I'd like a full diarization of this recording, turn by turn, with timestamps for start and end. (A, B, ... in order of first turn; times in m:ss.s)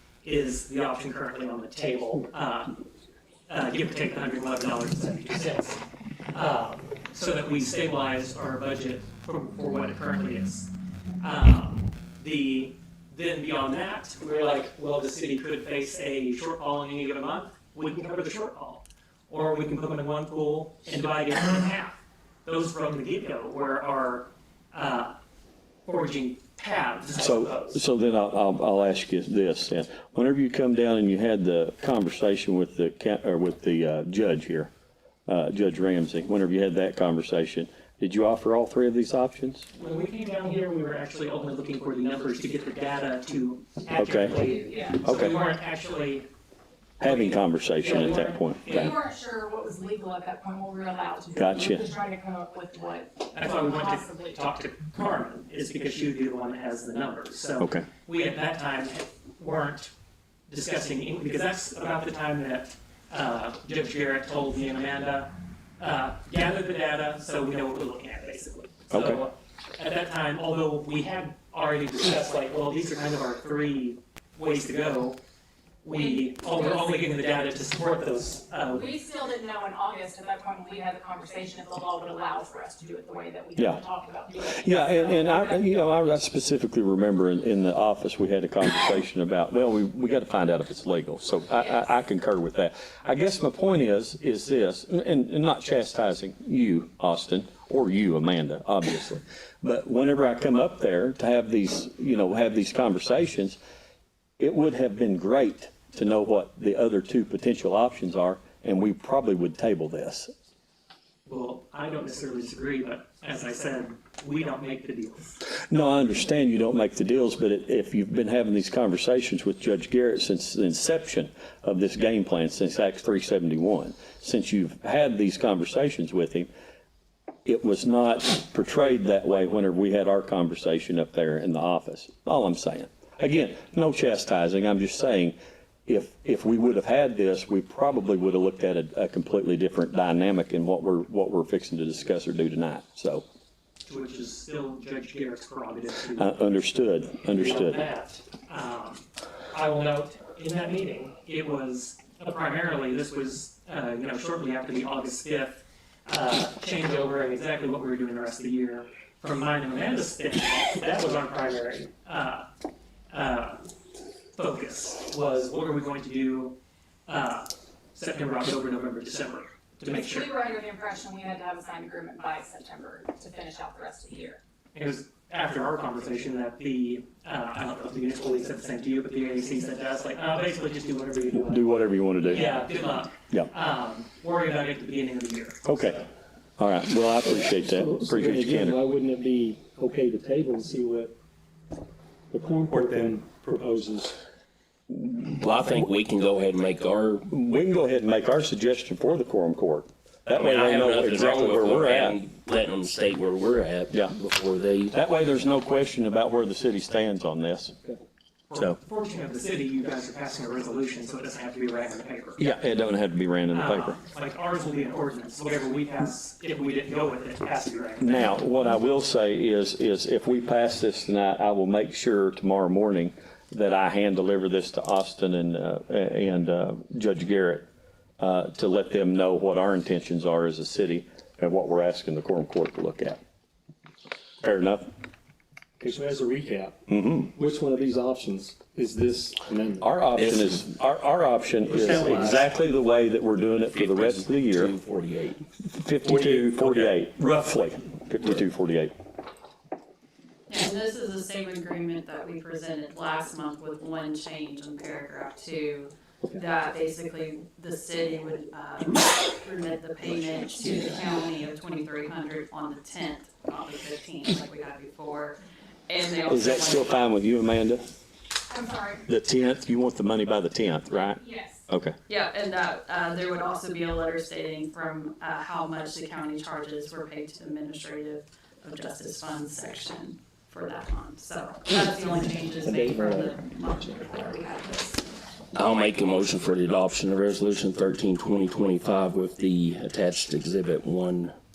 0:00.2-0:02.8 A
0:03.5-0:05.8 A
0:06.3-0:10.7 A
0:11.2-0:25.2 A
0:25.8-0:27.8 A
0:27.2-0:34.7 B
0:35.3-0:39.7 B
0:39.7-0:46.3 A
0:44.0-0:44.4 B
0:44.4-0:45.0 C
0:45.0-0:45.4 B
0:47.0-0:48.9 B
0:47.0-0:48.9 A
0:48.7-0:54.3 C
0:51.4-0:51.8 B
0:53.3-0:59.9 A
0:57.6-0:57.9 B
1:00.5-1:15.2 A
1:08.9-1:09.2 B
1:15.8-1:18.9 A
1:18.8-1:25.7 C
1:23.6-1:23.8 B
1:24.4-1:43.6 B
1:44.4-1:50.3 B
1:51.3-1:55.4 A
1:55.6-2:06.5 B
2:07.4-2:23.2 B
2:23.8-2:26.3 A
2:26.2-2:27.8 B
2:27.3-2:42.5 A
2:43.1-2:43.6 A
2:44.4-2:46.6 A
2:47.1-2:50.3 A
2:49.9-2:54.4 C
2:54.7-3:05.6 A
3:01.4-3:02.6 B
3:05.6-3:06.1 B
3:06.6-3:08.8 B
3:07.6-3:11.1 D
3:12.3-3:14.2 D
3:15.2-3:17.3 E
3:17.3-3:22.2 B
3:20.3-3:24.9 E
3:24.9-3:27.8 B
3:28.5-3:32.5 A
3:32.4-3:34.0 B
3:33.5-3:38.1 A
3:38.0-3:47.7 B
3:48.2-3:53.2 B
3:54.4-3:54.9 B
3:55.8-3:59.9 D
3:56.9-3:57.3 B
3:59.8-4:04.8 B
4:00.2-4:00.6 E
4:01.7-4:02.4 D
4:01.7-4:02.4 E
4:03.7-4:05.4 E
4:05.6-4:08.9 B
4:10.5-4:27.0 F
4:26.3-4:27.9 B
4:28.5-4:29.0 C
4:29.1-4:32.0 B
4:31.1-4:31.6 C
4:32.1-4:45.0 F
4:42.6-4:43.9 D
4:45.5-4:51.3 E